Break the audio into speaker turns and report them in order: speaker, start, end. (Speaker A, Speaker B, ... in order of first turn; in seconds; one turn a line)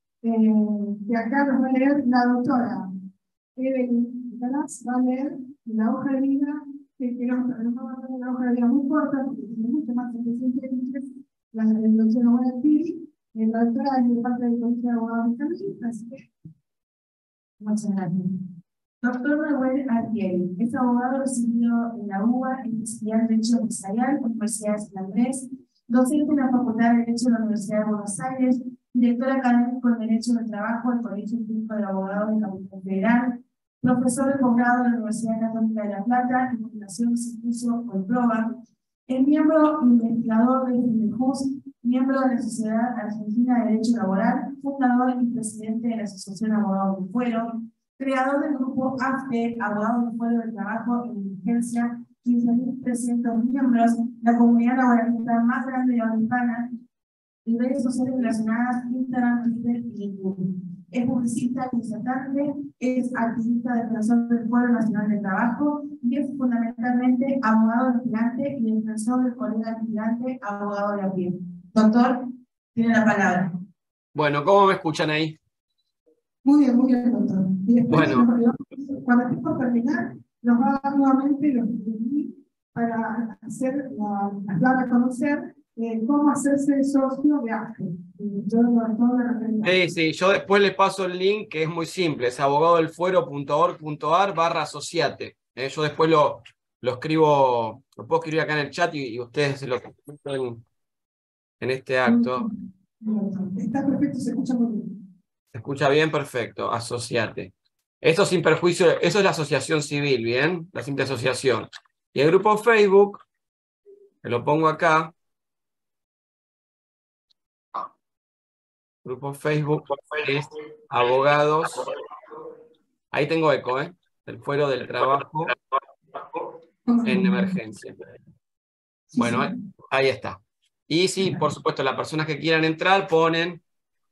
Speaker A: 0.2-2.8
Speaker A: 3.6-16.3
Speaker B: 17.6-18.4
Speaker B: 19.0-38.6
Speaker B: 39.1-56.7
Speaker B: 57.5-73.5
Speaker C: 74.1-75.4
Speaker A: 76.4-89.8
Speaker C: 77.9-78.3
Speaker C: 89.6-100.6
Speaker C: 101.6-102.5
Speaker A: 102.1-105.0
Speaker C: 105.5-113.2
Speaker C: 114.2-115.1
Speaker C: 119.0-121.9
Speaker C: 123.1-125.5
Speaker A: 126.9-127.6
Speaker C: 127.0-128.0
Speaker C: 129.2-133.6
Speaker A: 129.2-129.4